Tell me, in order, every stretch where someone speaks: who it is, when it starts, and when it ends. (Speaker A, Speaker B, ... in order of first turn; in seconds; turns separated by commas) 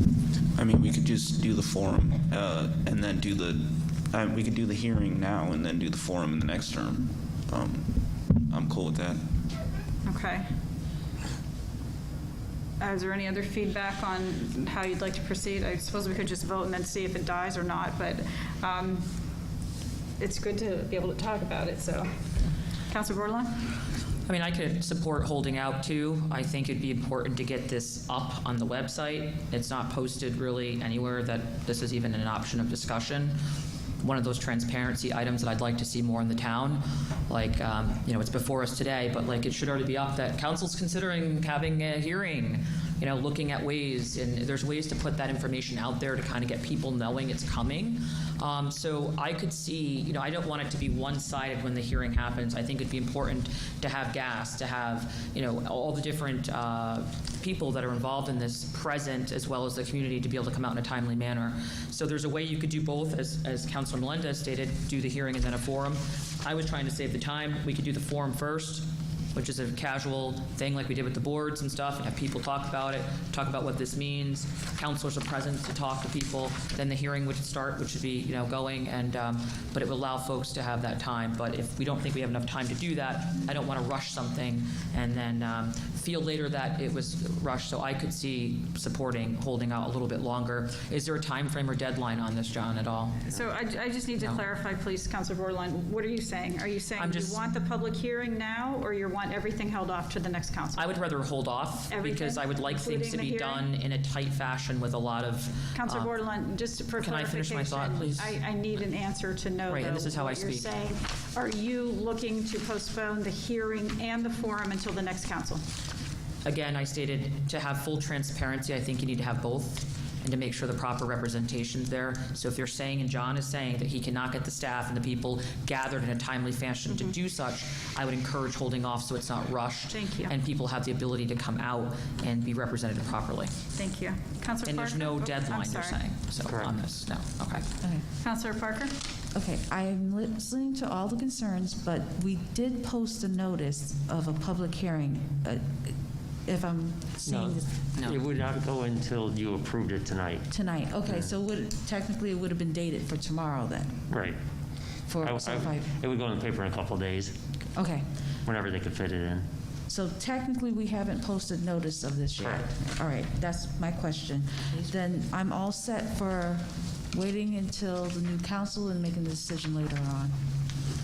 Speaker A: 0.6-9.2, Speaker B: 10.1-10.4, Speaker B: 12.8-19.0, Speaker B: 20.2-22.1, Speaker B: 22.9-23.6, Speaker C: 24.2-33.3, Speaker C: 34.0-93.5, Speaker B: 93.3-101.0, Speaker C: 94.2-94.4, Speaker C: 97.0-97.4, Speaker C: 100.8-106.1, Speaker B: 101.9-103.7, Speaker B: 105.7-115.6, Speaker C: 107.0-108.4, Speaker C: 109.7-110.7, Speaker C: 116.4-133.5, Speaker B: 129.9-130.3, Speaker B: 133.8-136.0, Speaker C: 134.6-137.7, Speaker D: 136.4-136.7, Speaker B: 138.2-138.9, Speaker E: 139.3-145.9, Speaker E: 146.4-147.6, Speaker D: 147.3-150.4, Speaker E: 150.5-154.0, Speaker D: 154.1-154.4, Speaker E: 155.1-155.9, Speaker D: 155.2-157.3, Speaker E: 157.7-158.0, Speaker D: 158.4-159.4, Speaker E: 159.9-170.3